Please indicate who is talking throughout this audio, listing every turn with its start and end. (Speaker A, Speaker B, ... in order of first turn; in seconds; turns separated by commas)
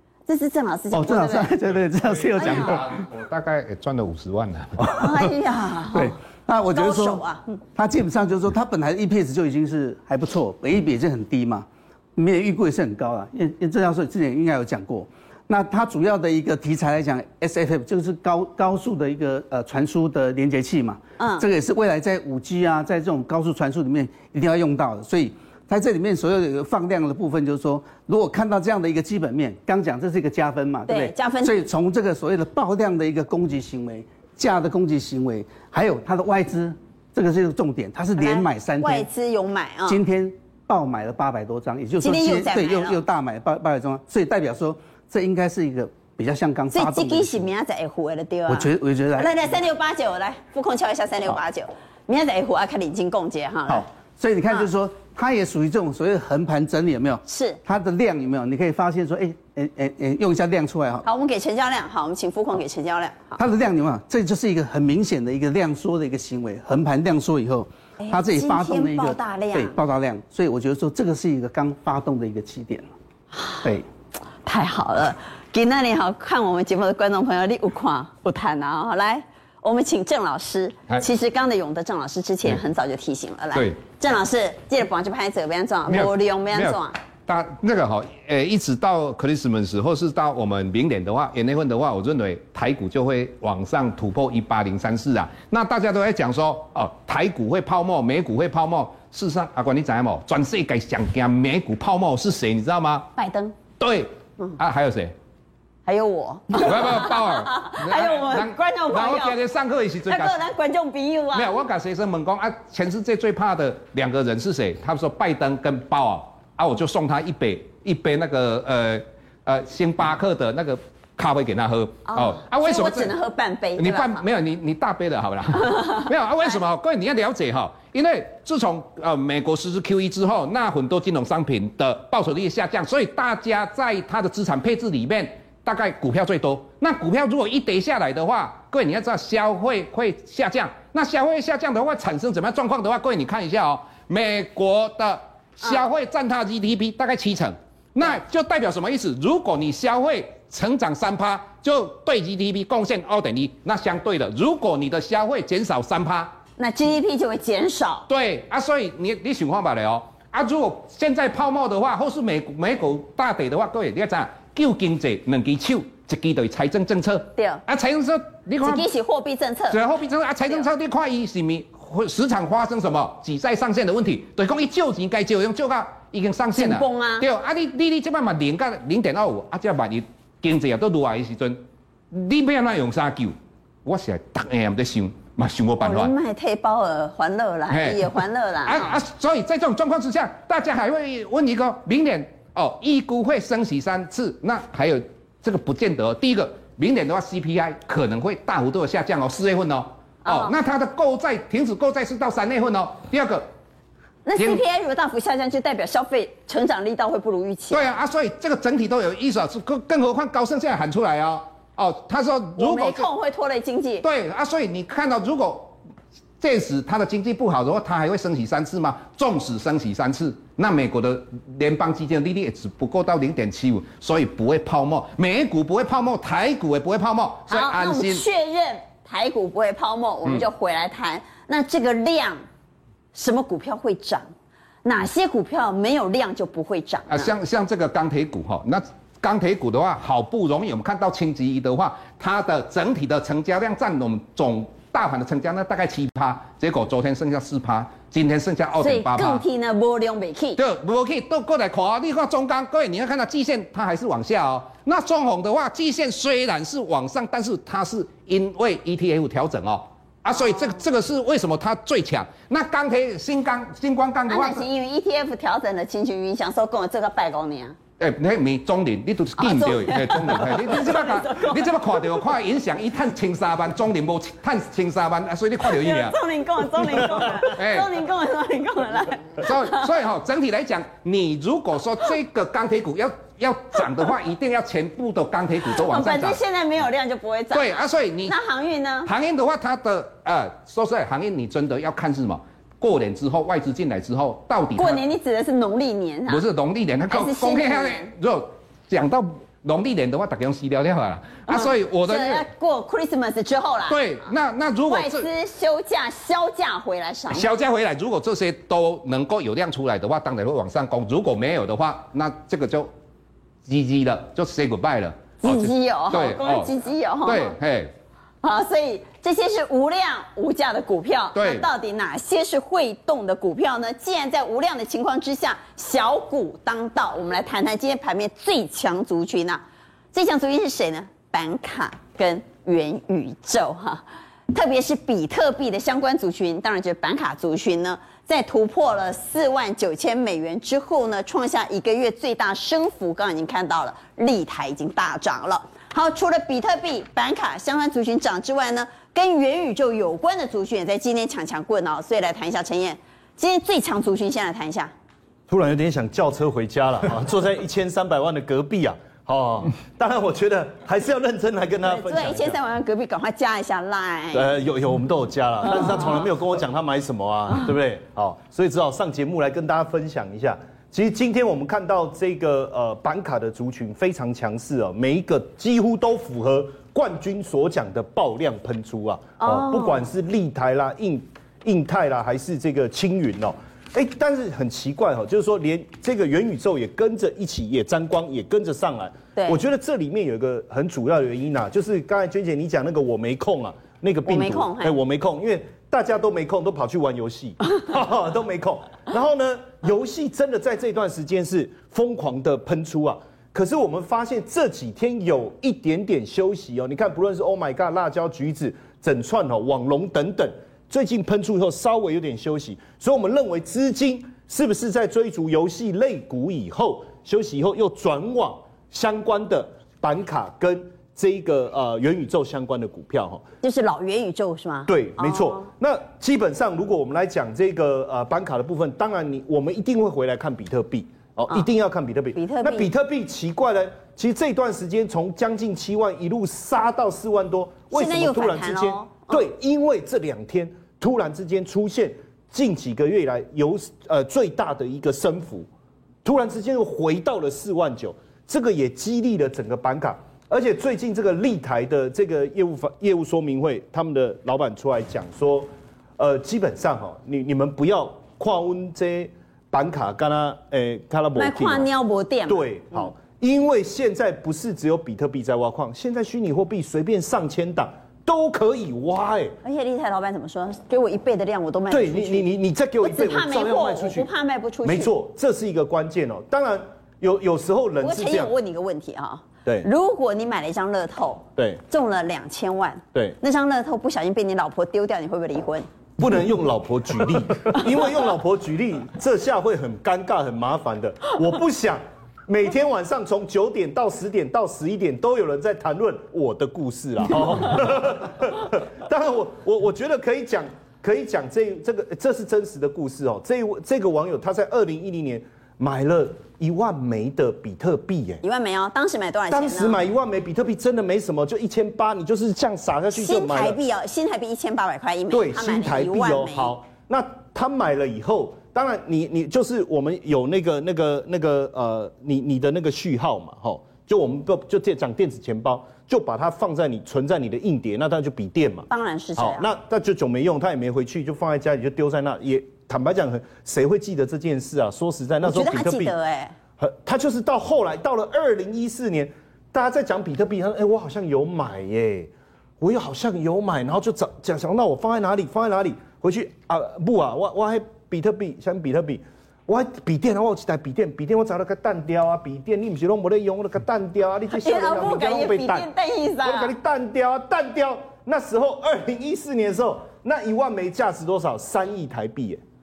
Speaker A: 0.3-1.5, Speaker B: 0.9-3.0, Speaker C: 2.1-4.9, Speaker A: 2.4-2.8, Speaker B: 4.8-5.1, Speaker A: 4.9-6.1, Speaker B: 5.9-7.2, Speaker A: 6.7-7.6, Speaker B: 7.8-39.1, Speaker A: 21.2-21.5, Speaker A: 30.9-31.6, Speaker A: 38.2-40.0, Speaker B: 39.9-47.5, Speaker A: 42.0-43.0, Speaker A: 46.7-53.9, Speaker B: 48.5-49.3, Speaker B: 53.7-61.0, Speaker A: 57.2-57.6, Speaker A: 61.0-63.4, Speaker B: 63.4-72.9, Speaker A: 68.0-69.8, Speaker A: 73.3-73.7, Speaker A: 74.4-86.9, Speaker C: 85.9-103.1, Speaker A: 103.2-103.6, Speaker C: 103.8-105.1, Speaker A: 105.9-109.4, Speaker C: 106.5-110.4, Speaker A: 110.1-111.6, Speaker C: 111.3-123.1, Speaker A: 122.0-124.2, Speaker C: 123.8-156.4, Speaker A: 156.6-158.1, Speaker C: 158.1-168.9, Speaker A: 167.3-167.6, Speaker A: 168.6-169.8, Speaker C: 169.7-181.6, Speaker A: 176.6-177.2, Speaker C: 182.1-186.1, Speaker A: 185.8-188.9, Speaker C: 187.7-188.1, Speaker C: 188.6-203.5, Speaker A: 200.2-200.5, Speaker A: 204.2-207.9, Speaker C: 204.4-204.6, Speaker C: 207.7-213.1, Speaker A: 212.6-214.0, Speaker C: 214.0-215.7, Speaker C: 216.4-228.2, Speaker A: 227.5-232.4, Speaker A: 233.1-234.3, Speaker A: 234.8-237.3, Speaker C: 237.1-249.4, Speaker A: 248.8-250.6, Speaker C: 250.6-264.6, Speaker A: 264.3-267.8, Speaker C: 268.0-276.2, Speaker A: 269.4-271.8, Speaker A: 275.6-279.8, Speaker C: 277.5-277.9, Speaker C: 279.4-286.4, Speaker A: 285.8-289.1, Speaker C: 287.5-288.3, Speaker C: 289.0-295.0, Speaker A: 294.8-296.4, Speaker C: 296.3-302.4, Speaker A: 297.0-298.1, Speaker A: 301.5-304.0, Speaker C: 303.9-305.3, Speaker A: 304.9-307.5, Speaker C: 307.3-312.9, Speaker C: 313.6-316.7, Speaker A: 315.4-317.6, Speaker C: 317.2-317.9, Speaker A: 318.4-354.9, Speaker C: 321.3-321.7, Speaker D: 355.5-362.6, Speaker A: 361.8-364.5, Speaker D: 364.3-423.4, Speaker A: 379.4-380.1, Speaker A: 394.2-395.0, Speaker A: 423.6-425.7, Speaker D: 424.9-445.7, Speaker A: 432.3-432.9, Speaker A: 437.9-439.4, Speaker D: 446.2-461.9, Speaker A: 461.4-463.1, Speaker D: 462.5-469.6, Speaker A: 469.6-475.1, Speaker D: 471.9-474.3, Speaker D: 474.8-478.5, Speaker A: 478.0-485.9, Speaker D: 481.6-481.8, Speaker D: 486.2-508.4, Speaker A: 508.4-510.0, Speaker D: 509.5-513.8, Speaker A: 513.1-516.7, Speaker D: 515.3-536.1, Speaker A: 528.9-529.7, Speaker A: 535.4-536.5, Speaker D: 536.8-555.9, Speaker A: 554.5-556.7, Speaker D: 556.4-562.6